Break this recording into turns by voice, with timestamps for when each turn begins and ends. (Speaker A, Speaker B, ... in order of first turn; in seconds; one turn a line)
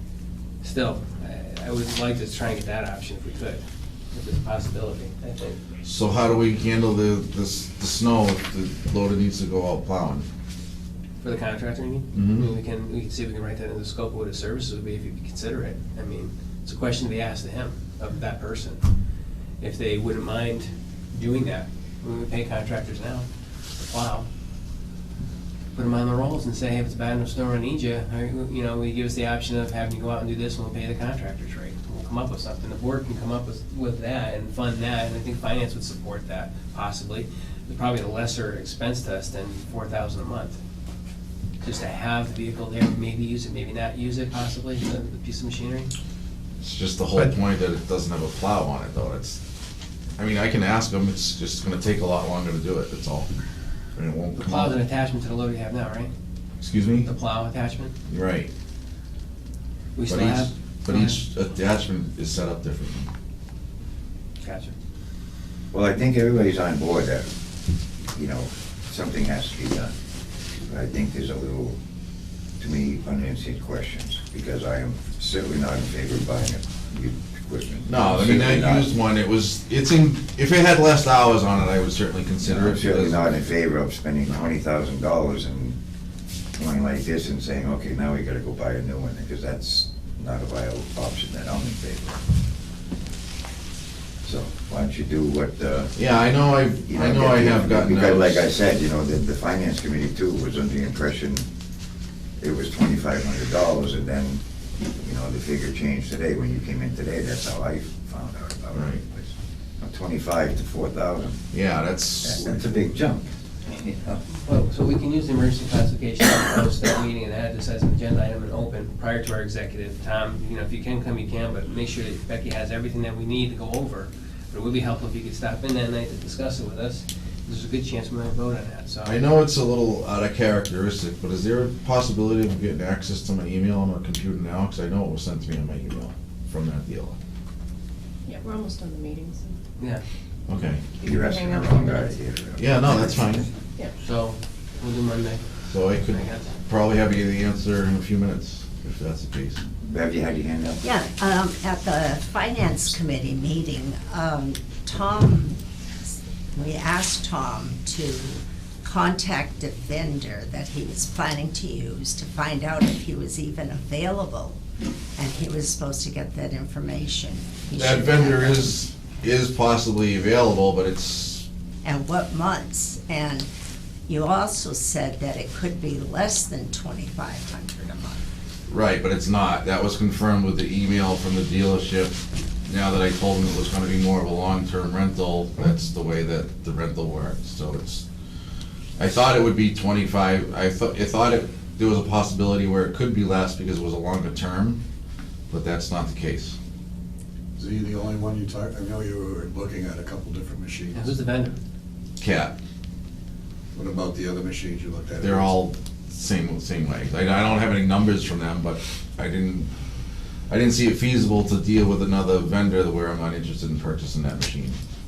Speaker A: 0.6-3.6
Speaker A: 4.1-5.6
Speaker B: 5.8-10.3
Speaker A: 11.2-18.8
Speaker B: 12.1-12.5
Speaker A: 19.6-23.2
Speaker A: 23.8-24.3
Speaker A: 25.8-40.6
Speaker A: 41.6-45.9
Speaker B: 46.6-49.4
Speaker B: 50.2-53.3
Speaker B: 54.0-54.8
Speaker A: 54.4-56.1
Speaker B: 56.6-57.1
Speaker A: 57.0-57.9
Speaker B: 58.1-58.5
Speaker A: 60.0-61.2
Speaker B: 60.1-63.1
Speaker A: 64.4-64.7
Speaker C: 65.7-67.3
Speaker C: 68.1-69.9
Speaker C: 70.6-71.8
Speaker C: 72.6-78.9
Speaker B: 77.9-83.3
Speaker C: 82.4-85.8
Speaker C: 86.5-92.2
Speaker C: 94.2-96.0
Speaker B: 96.0-98.5
Speaker C: 96.9-101.5
Speaker C: 102.4-111.4
Speaker B: 108.8-109.0
Speaker B: 111.5-112.6
Speaker C: 112.2-114.2
Speaker A: 114.5-129.2
Speaker B: 129.0-137.2
Speaker D: 138.2-139.6
Speaker B: 140.5-140.9
Speaker D: 141.0-142.2
Speaker C: 141.0-143.4
Speaker B: 142.6-143.5
Speaker A: 144.0-145.4
Speaker B: 145.7-149.7
Speaker A: 146.1-146.5
Speaker C: 149.8-150.8
Speaker E: 150.8-155.6
Speaker E: 156.6-164.6
Speaker E: 165.2-168.7
Speaker B: 167.7-171.4
Speaker E: 171.8-173.5
Speaker E: 174.1-178.2
Speaker B: 178.7-188.0
Speaker B: 189.0-194.8
Speaker B: 195.5-196.6
Speaker F: 197.6-201.1
Speaker A: 200.9-201.6
Speaker B: 202.2-202.5
Speaker F: 203.7-205.5
Speaker B: 205.2-209.7
Speaker B: 210.5-214.8